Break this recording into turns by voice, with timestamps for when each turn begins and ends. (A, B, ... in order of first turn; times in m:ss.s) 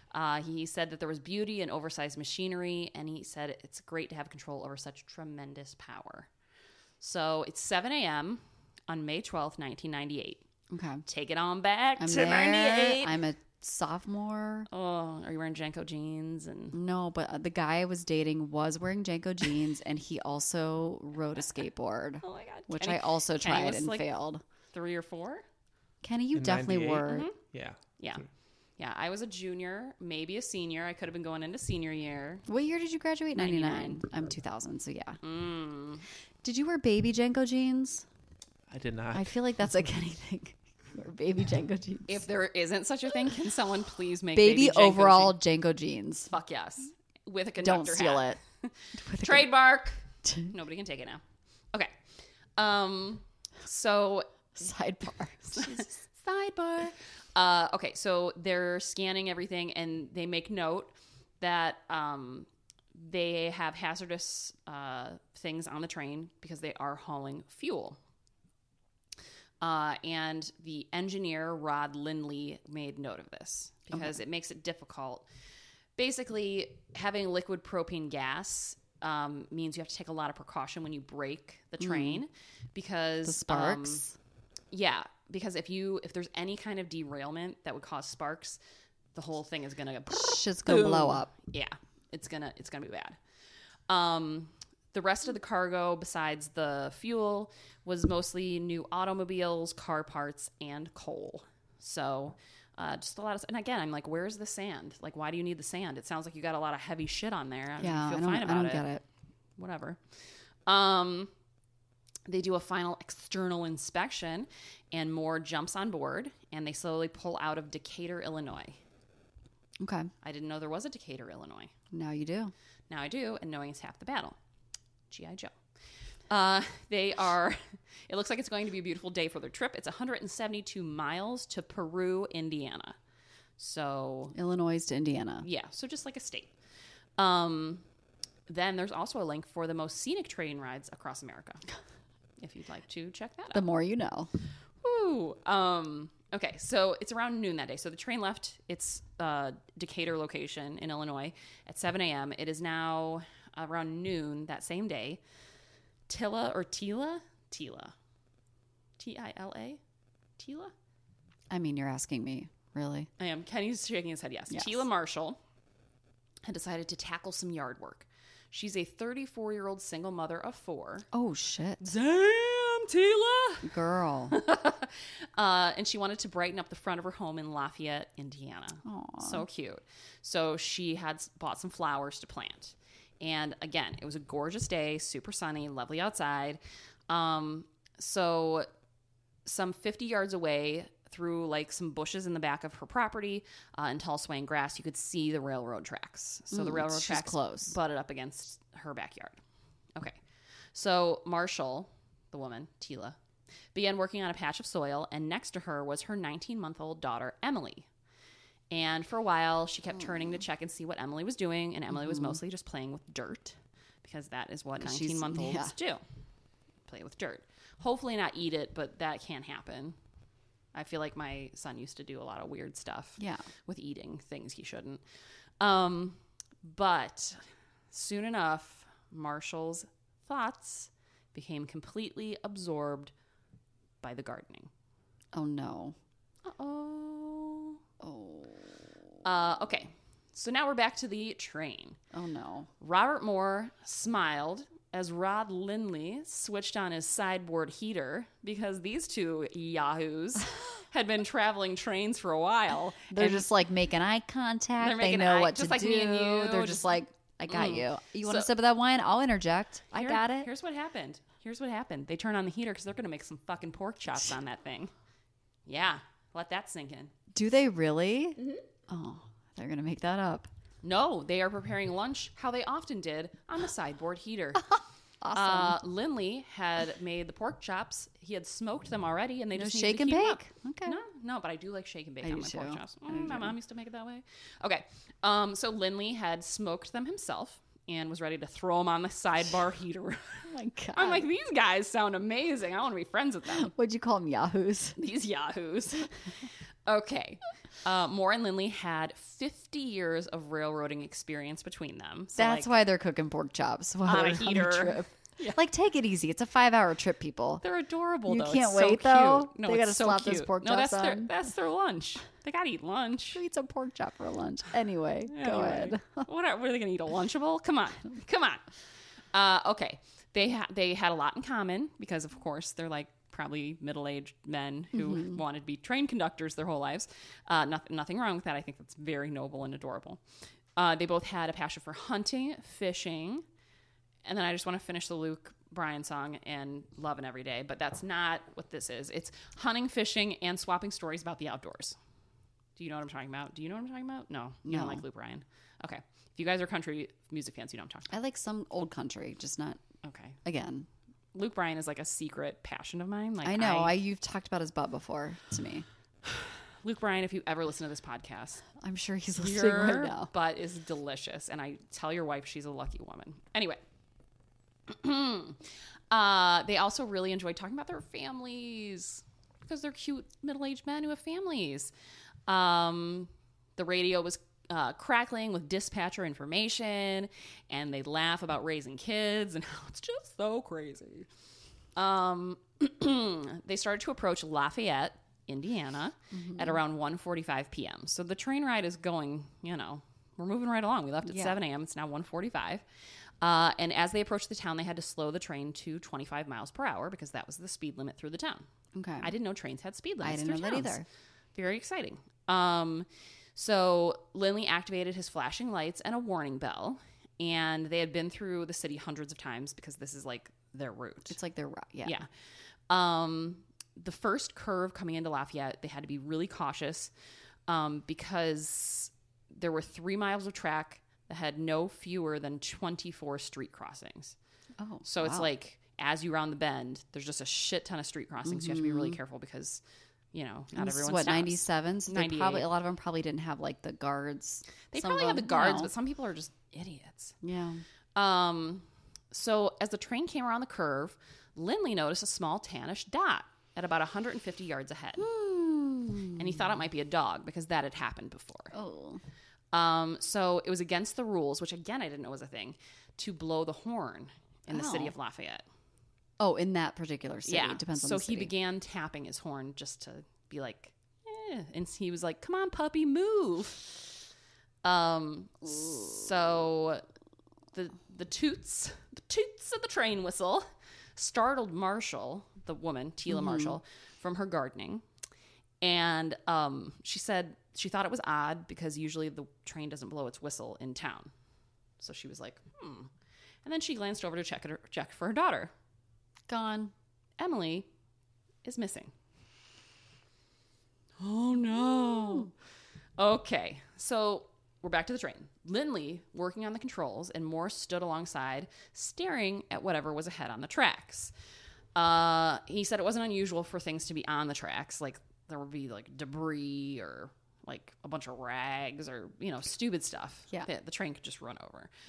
0:00.1-0:06.3 A
0:07.0-0:10.4 A
0:10.7-0:11.0 B
0:11.0-0:13.2 A
0:12.0-0:14.7 B
0:14.7-0:16.8 A
0:16.7-0:24.4 B
0:22.2-0:24.1 A
0:24.7-0:25.4 A
0:26.0-0:27.3 B
0:26.3-0:27.8 C
0:27.0-0:27.4 A
0:28.0-0:28.2 A
0:28.8-0:32.4 A
0:32.4-0:35.2 B
0:33.3-0:34.0 A
0:35.2-0:36.0 A
0:36.4-0:38.0 B
0:38.7-0:39.3 C
0:39.1-0:42.2 B
0:42.1-0:45.4 A
0:44.3-0:46.3 B
0:46.3-0:51.2 A
0:47.6-0:48.4 B
0:48.9-0:49.5 B
0:52.6-0:54.3 A
0:54.6-0:55.9 B
0:55.5-1:08.0 A
1:09.6-1:15.2 A
1:16.0-1:24.1 A
1:21.8-1:22.2 B
1:23.2-1:24.1 B
1:24.7-1:28.6 A
1:29.1-1:33.2 A
1:30.1-1:31.3 B
1:33.9-1:48.8 A
1:47.8-1:49.0 B
1:49.6-1:50.0 A
1:50.6-1:51.3 A
1:52.3-1:58.8 A
1:59.8-2:00.1 B
2:00.2-2:01.7 A
2:01.9-2:02.5 B
2:02.9-2:04.4 A
2:05.1-2:05.6 A
2:06.3-2:13.0 A
2:13.6-2:14.3 A
2:14.3-2:15.4 B
2:15.4-2:16.5 A
2:17.2-2:17.8 A
2:18.5-2:21.6 A
2:22.4-2:23.6 A
2:23.5-2:24.3 B
2:24.8-2:35.2 A
2:36.1-2:37.9 A
2:39.0-2:39.8 A
2:40.4-2:40.7 A
2:41.5-2:43.1 B
2:43.2-2:45.4 A
2:46.4-2:51.1 A
2:51.1-2:51.8 B
2:51.8-2:53.8 A
2:53.6-2:54.4 B
2:54.3-3:08.7 A
2:58.8-2:59.4 B
3:09.4-3:19.4 A
3:16.5-3:17.7 B
3:19.9-3:20.2 A
3:20.7-3:23.2 A
3:23.7-3:27.9 A
3:28.7-3:36.0 A
3:31.9-3:32.4 B
3:34.8-3:35.7 B
3:36.8-3:40.0 A
3:40.7-3:45.0 A
3:43.2-3:43.4 B
3:45.6-3:53.1 A
3:54.0-3:54.7 A
3:55.3-3:56.0 B
3:56.4-3:57.8 A
3:58.0-3:58.9 B
3:59.2-4:02.0 A
4:02.1-4:02.7 B
4:02.8-4:13.4 A
4:13.1-4:20.5 B
4:14.8-4:16.9 A
4:17.5-4:18.5 A
4:19.9-4:24.9 A
4:25.6-4:27.1 A
4:27.3-4:30.5 B
4:30.8-4:34.8 A
4:35.2-4:35.8 B
4:35.3-4:53.7 A
4:39.5-4:41.0 B
4:42.2-4:43.5 B
4:50.5-4:51.2 B
4:53.5-4:55.0 B
4:55.0-4:56.1 A
4:56.8-5:02.7 A
5:02.3-5:07.6 B
5:04.0-5:05.6 A
5:07.6-5:13.4 A
5:08.2-5:11.3 B
5:13.3-5:16.2 B
5:15.3-5:18.7 A
5:19.3-5:30.2 A
5:24.9-5:25.4 B
5:30.8-5:33.4 A
5:34.2-5:42.0 A
5:42.8-5:48.2 A
5:44.6-5:45.0 B
5:48.1-5:49.8 B
5:50.0-5:50.4 A
5:50.4-5:50.9 B
5:51.3-5:53.9 A
5:53.4-5:55.8 B
5:56.8-5:58.6 A
5:58.8-6:00.3 B
5:59.4-6:03.8 A
6:04.9-6:11.9 A
6:12.5-6:21.3 A
6:22.0-6:32.8 A
6:26.3-6:26.8 B
6:31.2-6:31.6 B
6:33.4-6:38.6 A
6:38.9-6:39.3 B
6:39.2-6:41.0 A
6:40.2-6:41.0 B
6:41.5-6:51.4 A
6:51.3-6:52.2 B
6:52.9-6:57.1 A
6:57.7-7:04.4 A
7:04.8-7:05.5 B
7:05.0-7:09.8 A
7:08.4-7:09.2 B
7:10.3-7:12.7 A
7:10.7-7:15.9 B
7:14.9-7:17.4 A
7:17.4-7:17.8 B
7:18.1-7:25.3 A
7:25.2-7:26.5 B
7:26.3-7:28.7 A
7:28.7-7:29.2 B
7:29.7-7:35.6 A
7:34.7-7:35.1 B
7:36.4-7:38.5 B
7:37.4-7:43.8 A
7:44.8-7:47.0 A
7:47.7-7:55.0 A
7:53.3-7:53.8 B
7:55.8-8:01.3 A
8:02.0-8:03.1 A
8:03.6-8:05.7 A
8:06.5-8:06.9 B
8:07.4-8:07.9 A
8:08.6-8:09.1 A
8:11.2-8:12.5 A
8:11.9-8:12.4 B
8:13.2-8:21.3 A
8:21.9-8:31.9 A